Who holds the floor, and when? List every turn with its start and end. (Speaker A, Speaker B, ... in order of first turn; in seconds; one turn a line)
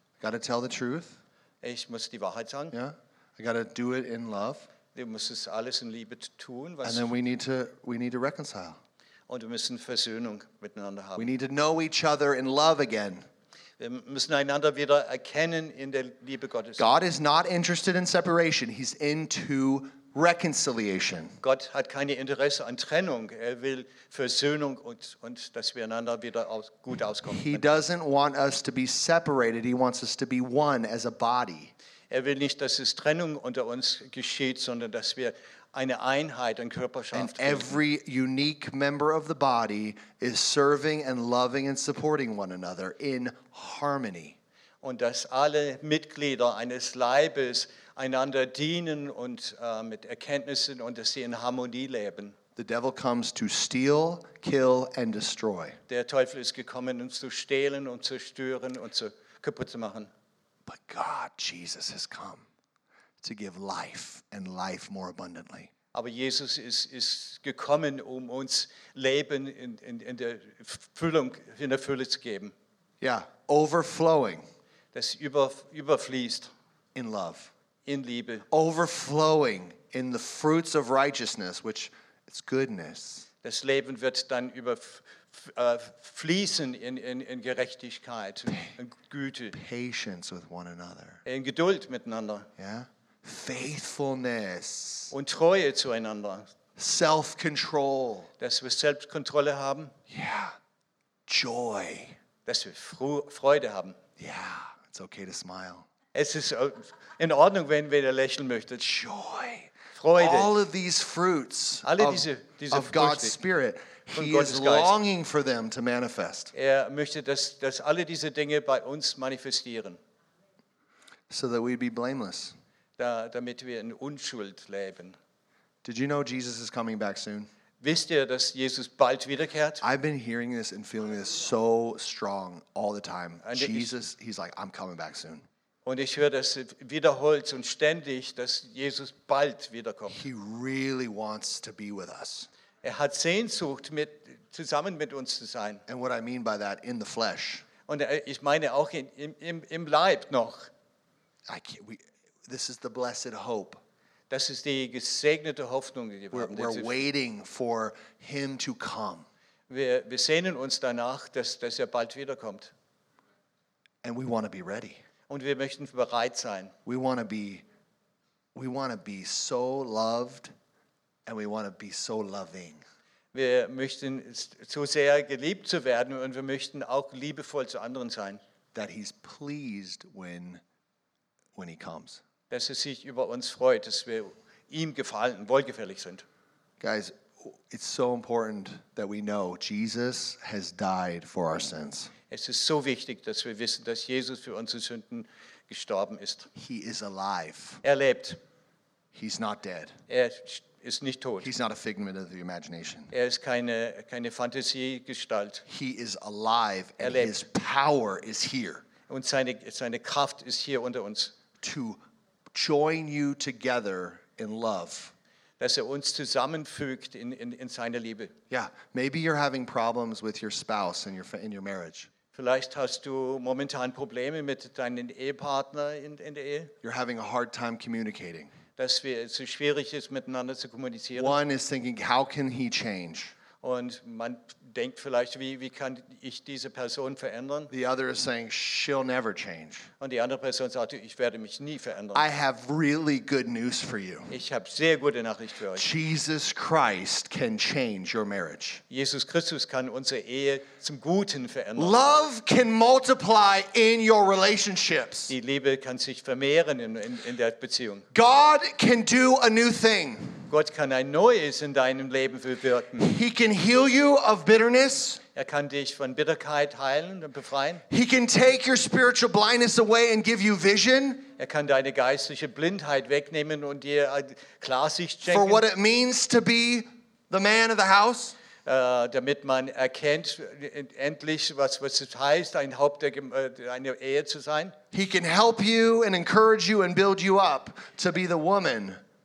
Speaker A: 0.2-1.2
Speaker B: 1.6-2.7
Speaker A: 2.7-4.7
Speaker B: 4.9-7.1
Speaker A: 6.8-8.8
Speaker B: 9.3-11.3
Speaker A: 11.2-13.2
Speaker B: 13.8-16.9
Speaker A: 16.8-21.4
Speaker B: 21.4-27.8
Speaker A: 27.3-31.7
Speaker B: 32.1-37.8
Speaker A: 37.1-44.4
Speaker B: 44.8-52.4
Speaker A: 52.5-55.8
Speaker B: 55.9-60.1
Speaker A: 60.6-62.4
Speaker A: 63.2-65.7
Speaker B: 65.9-72.5
Speaker A: 73.0-74.4
Speaker B: 74.9-76.5
Speaker A: 76.9-77.5
Speaker B: 77.8-78.5
Speaker A: 78.5-83.3
Speaker B: 83.4-89.5
Speaker A: 89.5-91.2
Speaker B: 91.2-92.5
Speaker A: 92.6-95.1
Speaker B: 95.1-96.5
Speaker A: 96.8-98.3
Speaker B: 98.4-99.9
Speaker A: 100.1-100.5
Speaker A: 101.3-102.2
Speaker B: 102.5-104.0
Speaker A: 104.2-105.9
Speaker B: 106.1-108.8
Speaker A: 108.8-116.5
Speaker B: 110.0-110.5
Speaker B: 111.8-113.3
Speaker B: 114.1-114.9
Speaker B: 116.5-120.0
Speaker A: 121.3-122.5
Speaker B: 123.0-125.2
Speaker A: 125.8-127.5
Speaker B: 127.8-129.8
Speaker A: 129.8-135.4
Speaker B: 133.4-133.9
Speaker B: 135.8-140.2
Speaker A: 140.1-142.5
Speaker B: 142.8-145.8
Speaker A: 145.9-147.7
Speaker B: 147.9-150.7
Speaker A: 151.5-153.8
Speaker B: 154.3-156.9
Speaker A: 156.3-159.2
Speaker B: 159.7-162.7
Speaker A: 164.0-165.0
Speaker B: 165.3-166.7
Speaker A: 166.8-167.6
Speaker A: 168.5-170.5
Speaker A: 171.2-172.8
Speaker B: 173.3-178.4
Speaker A: 178.7-180.6
Speaker A: 181.5-182.2
Speaker B: 182.5-186.2
Speaker A: 186.8-192.1
Speaker B: 192.3-196.5
Speaker A: 196.6-197.8
Speaker B: 197.8-198.4
Speaker A: 199.1-199.9
Speaker B: 200.1-201.5
Speaker A: 201.4-203.1
Speaker B: 203.1-205.6
Speaker A: 205.7-208.8
Speaker B: 207.0-207.4
Speaker B: 209.1-211.3
Speaker A: 211.6-212.0
Speaker A: 212.5-215.1
Speaker B: 215.6-218.3
Speaker A: 218.5-222.1
Speaker B: 222.3-226.7
Speaker A: 226.8-228.5
Speaker B: 228.8-231.4
Speaker A: 231.1-233.3
Speaker B: 233.6-237.7
Speaker A: 237.7-239.9
Speaker B: 240.0-242.2
Speaker A: 242.1-244.3
Speaker B: 244.3-245.8
Speaker A: 245.7-248.8
Speaker B: 248.9-251.9
Speaker A: 251.8-255.3
Speaker B: 255.3-258.1
Speaker A: 258.1-260.4
Speaker B: 260.5-263.1
Speaker A: 263.0-265.2
Speaker B: 265.4-267.8
Speaker A: 267.9-271.3
Speaker B: 271.4-275.6
Speaker A: 275.3-278.4
Speaker B: 278.6-284.7
Speaker A: 284.9-289.0